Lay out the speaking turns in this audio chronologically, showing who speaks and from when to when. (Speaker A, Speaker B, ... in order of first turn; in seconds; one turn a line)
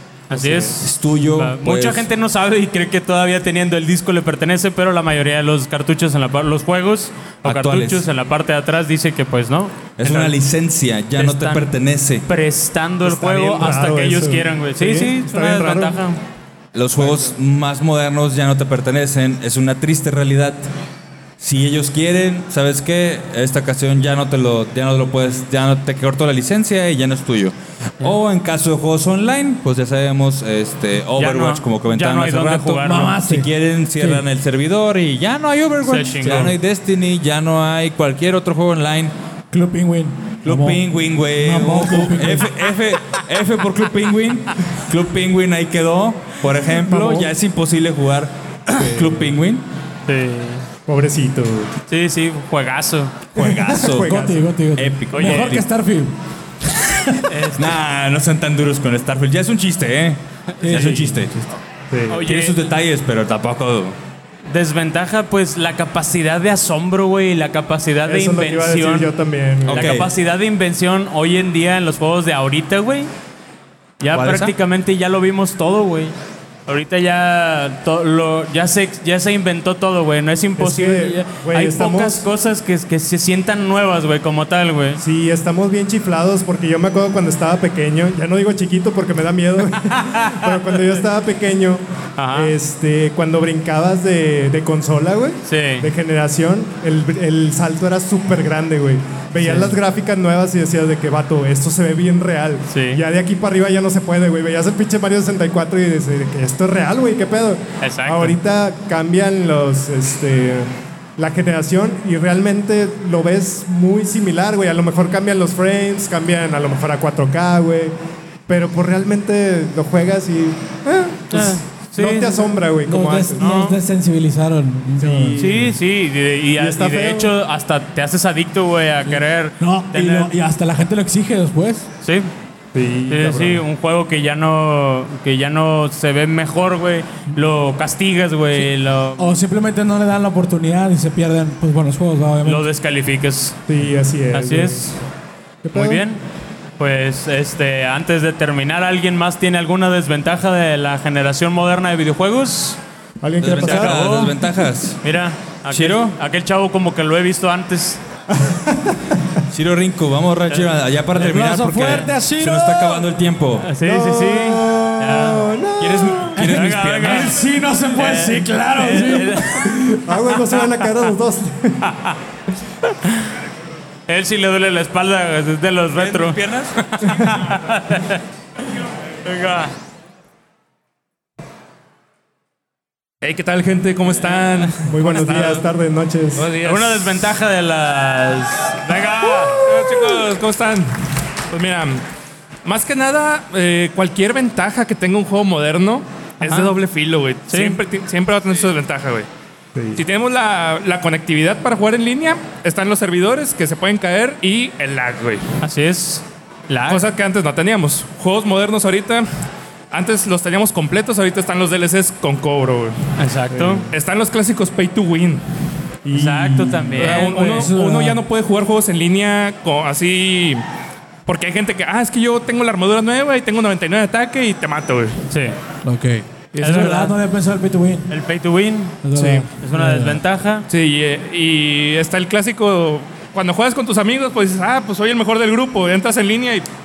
Speaker A: 0.3-10.3
Speaker B: 0.3-0.8
Speaker C: 0.8-2.1
Speaker C: 7.4-8.1
Speaker C: 10.0-12.3
Speaker A: 11.2-11.7
Speaker A: 12.3-16.2
Speaker B: 13.0-16.0
Speaker C: 16.7-20.7
Speaker B: 17.0-17.3
Speaker C: 21.4-39.1
Speaker A: 31.2-33.2
Speaker D: 32.8-34.2
Speaker A: 35.8-36.5
Speaker D: 39.5-42.5
Speaker C: 40.4-49.6
Speaker B: 46.9-47.3
Speaker A: 50.1-50.6
Speaker B: 50.9-51.7
Speaker A: 51.9-53.1
Speaker C: 53.3-55.6
Speaker D: 53.4-56.1
Speaker B: 53.9-54.3
Speaker A: 55.1-55.5
Speaker A: 57.3-57.7
Speaker C: 57.5-61.3
Speaker D: 60.6-61.3
Speaker A: 60.6-60.9
Speaker B: 61.9-62.2
Speaker A: 62.1-62.5
Speaker C: 62.1-64.0
Speaker A: 64.5-69.1
Speaker B: 68.0-70.1
Speaker C: 69.7-70.1
Speaker A: 69.7-73.1
Speaker A: 74.0-76.1
Speaker C: 74.1-74.5
Speaker A: 76.7-85.0
Speaker B: 80.6-82.2
Speaker B: 85.0-117.9
Speaker A: 92.2-92.5
Speaker A: 95.5-95.9
Speaker A: 99.4-99.8
Speaker A: 102.7-103.0
Speaker A: 107.8-108.4
Speaker B: 118.5-123.5
Speaker A: 121.3-122.4
Speaker D: 122.8-125.4
Speaker A: 123.4-123.8
Speaker B: 125.0-125.7
Speaker A: 125.4-130.3
Speaker B: 126.6-127.3
Speaker D: 129.1-131.9
Speaker A: 132.0-132.3
Speaker B: 132.7-133.6
Speaker A: 133.1-139.3
Speaker D: 139.2-142.6
Speaker A: 142.4-143.6
Speaker B: 143.7-144.9
Speaker A: 144.3-144.9
Speaker B: 145.6-146.0
Speaker A: 145.7-146.2
Speaker A: 146.8-152.8
Speaker B: 153.2-154.2
Speaker C: 153.4-155.0
Speaker A: 153.4-154.3
Speaker A: 155.0-158.0
Speaker C: 155.7-156.2
Speaker B: 158.3-158.9
Speaker C: 159.5-163.7
Speaker D: 161.1-163.0
Speaker A: 163.6-165.5
Speaker B: 163.8-166.4
Speaker C: 165.8-167.3
Speaker D: 166.4-170.0
Speaker A: 166.5-167.4
Speaker A: 167.9-169.7
Speaker B: 170.0-171.9
Speaker A: 174.1-178.2
Speaker C: 175.9-176.8
Speaker A: 179.3-179.7
Speaker E: 183.2-185.6
Speaker B: 184.9-186.5
Speaker E: 186.4-187.1
Speaker A: 186.6-189.6
Speaker E: 188.9-190.9
Speaker E: 191.5-192.0
Speaker E: 192.6-199.3
Speaker A: 196.4-196.7
Speaker A: 197.5-197.8
Speaker B: 199.7-200.0
Speaker E: 199.9-205.5
Speaker A: 205.6-207.0
Speaker E: 206.9-209.2
Speaker E: 209.9-212.9
Speaker A: 213.2-213.8
Speaker B: 213.5-213.9
Speaker E: 213.9-215.4
Speaker B: 216.1-217.2
Speaker A: 216.1-217.7
Speaker E: 216.9-220.6
Speaker D: 217.0-218.2
Speaker E: 221.3-225.2
Speaker A: 225.3-225.6
Speaker D: 225.8-228.1
Speaker A: 226.6-227.1
Speaker A: 228.1-229.0
Speaker D: 229.0-230.2
Speaker B: 229.2-229.4
Speaker A: 229.6-230.7
Speaker E: 230.7-236.6